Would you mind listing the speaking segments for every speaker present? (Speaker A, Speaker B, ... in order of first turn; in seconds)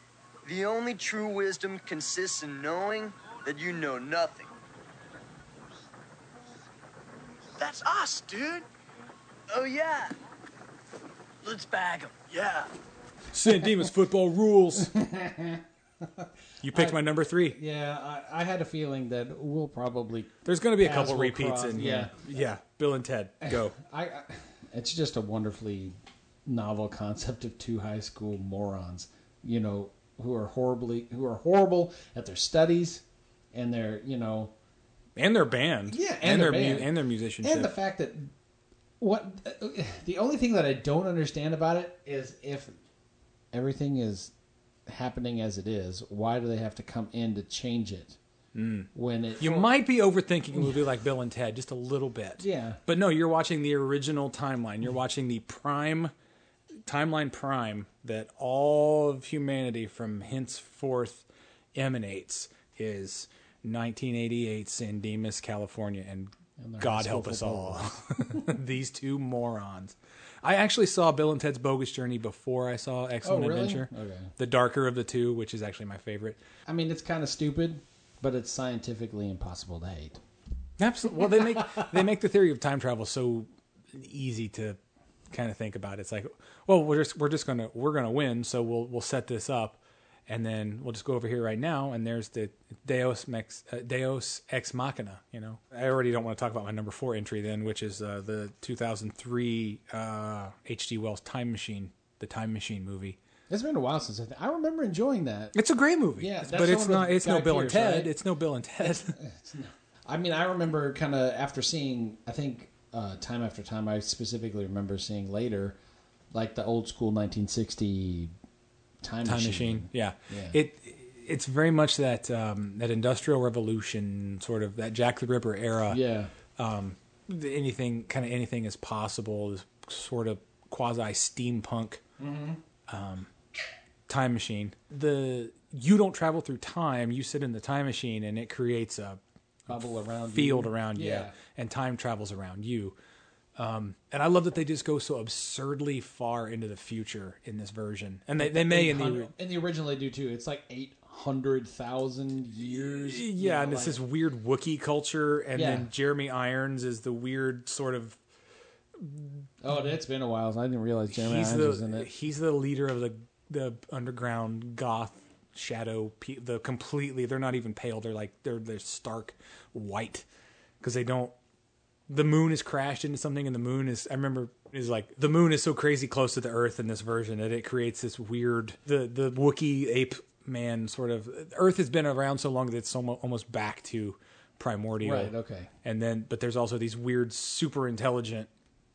Speaker A: 0.4-4.5, 7.6-8.7, 9.5-10.1, 11.4-12.7
Speaker B: 13.3-14.9, 16.6-17.6, 20.4-23.8, 35.2-37.7, 48.5-56.1, 56.9-76.4, 80.8-84.8, 85.3-103.2, 105.5-109.2, 119.2-126.0, 126.6-132.0, 132.9-133.3, 134.1-143.0, 143.6-149.3, 152.7-158.2, 159.0-159.9, 161.1-170.2, 170.8-171.3, 172.1-188.5
Speaker C: 14.9-22.2, 23.5-25.9, 26.5-34.5, 35.9-38.3, 39.0-42.7, 43.5-44.3, 44.9-48.2, 48.9-49.7, 52.4-52.8, 66.6-68.5, 73.2-74.3, 76.7-80.2, 103.5-105.5, 106.2-108.1, 108.8-115.8, 116.3-118.3, 119.0-120.6, 125.9-126.3, 132.2-132.6, 139.7-141.3, 148.4-154.0, 155.6-155.9, 159.6-162.1, 185.0-185.7